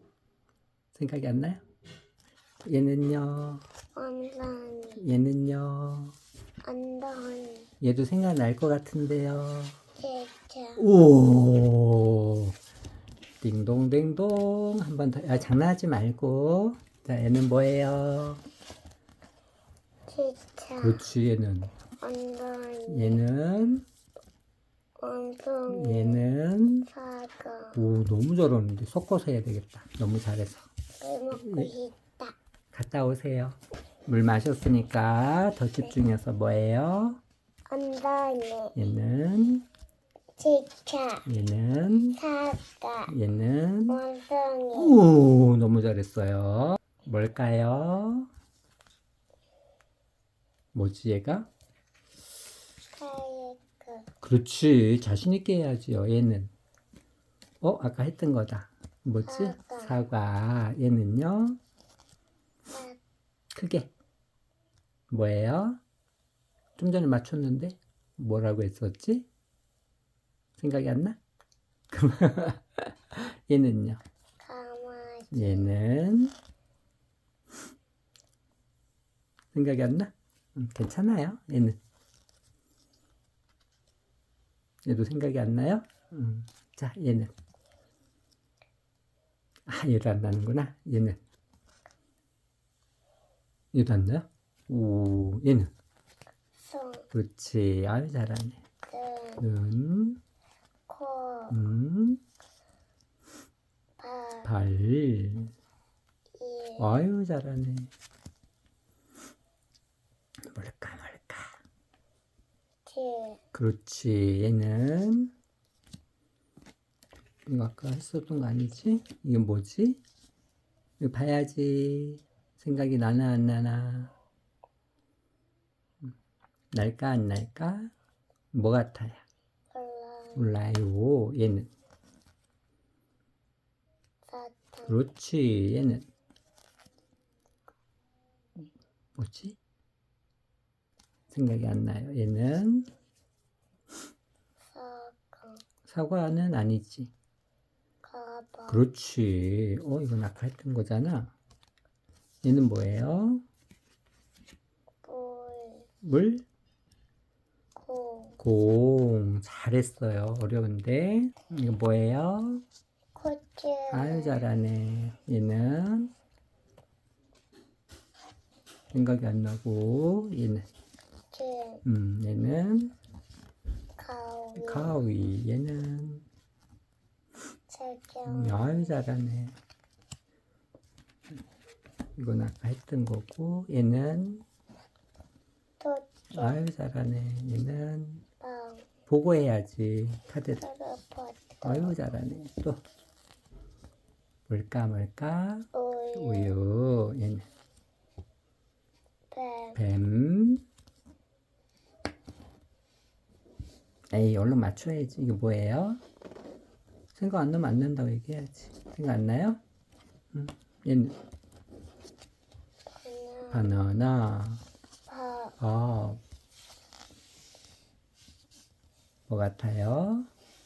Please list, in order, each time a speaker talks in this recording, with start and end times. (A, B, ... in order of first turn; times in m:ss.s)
0:01.0-0:01.6 A
0:02.7-0:03.6 A
0:04.0-0:05.0 B
0:05.0-0:06.2 A
0:06.6-0:07.7 B
0:07.8-0:09.8 A
0:10.0-0:10.9 B
0:10.8-0:12.5 A
0:13.4-0:18.4 A
0:20.1-0:21.1 B
0:20.8-0:21.7 A
0:22.0-0:23.2 B
0:22.9-0:23.8 A
0:25.0-0:26.2 B
0:25.7-0:26.9 A
0:26.9-0:27.8 B
0:27.7-0:30.7 A
0:31.0-0:32.4 B
0:31.3-0:31.7 A
0:32.7-0:37.2 A
0:37.7-0:38.8 B
0:38.8-0:39.6 A
0:40.4-0:41.3 B
0:41.3-0:42.2 A
0:42.2-0:43.1 B
0:43.1-0:44.0 A
0:43.9-0:45.0 B
0:44.7-0:48.3 A
0:50.7-0:51.5 A
0:52.9-0:54.1 B
0:54.2-0:56.5 A
0:57.6-1:01.6 A
0:59.3-1:00.0 B
1:02.7-1:03.0 B
1:03.5-1:03.9 A
1:05.1-1:05.8 A
1:06.8-1:09.3 A
1:10.6-1:11.2 A
1:11.9-1:14.0 A
1:14.4-1:15.7 B
1:15.3-1:16.3 A
1:19.5-1:21.8 A
1:24.8-1:27.3 A
1:29.7-1:31.2 A
1:33.7-1:35.7 A
1:36.6-1:37.1 B
1:37.1-1:38.6 A
1:38.8-1:39.5 B
1:39.4-1:40.2 A
1:40.9-1:41.6 B
1:41.5-1:42.2 A
1:44.0-1:44.5 B
1:44.4-1:45.5 A
1:46.4-1:46.9 B
1:46.8-1:47.9 A
1:50.4-1:51.6 A
1:52.9-1:53.4 B
1:53.5-1:55.3 A
1:57.5-2:00.0 A
2:01.0-2:04.1 A
2:06.7-2:07.9 A
2:08.5-2:09.2 A
2:09.7-2:10.5 B
2:10.4-2:11.7 A
2:14.3-2:15.0 B
2:14.9-2:16.0 A
2:19.2-2:19.6 A
2:21.3-2:22.9 A
2:24.7-2:25.6 B
2:25.9-2:27.1 A
2:28.0-2:28.9 B
2:28.7-2:31.3 A
2:32.4-2:33.4 A
2:35.0-2:35.9 B
2:36.0-2:36.4 A
2:37.8-2:38.4 B
2:38.4-2:42.6 A
2:43.2-2:44.4 B
2:43.9-2:46.1 A
2:48.9-2:50.6 A
2:51.3-2:51.8 B
2:51.8-2:52.9 A
2:54.0-2:55.0 B
2:54.6-2:56.3 A
2:57.7-2:59.0 B
2:58.3-2:59.6 A
3:02.2-3:04.4 A
3:05.8-3:06.6 B
3:06.3-3:08.2 A
3:08.4-3:08.9 B
3:09.1-3:10.6 A
3:10.6-3:12.0 B
3:11.6-3:12.8 A
3:14.5-3:17.5 A
3:15.7-3:16.6 B
3:19.3-3:19.8 B
3:19.8-3:20.6 A
3:24.1-3:26.0 A
3:27.2-3:29.6 A
3:30.3-3:31.2 A
3:32.9-3:33.8 B
3:33.5-3:34.6 A
3:35.1-3:35.6 B
3:35.6-3:36.2 A
3:39.3-3:40.3 A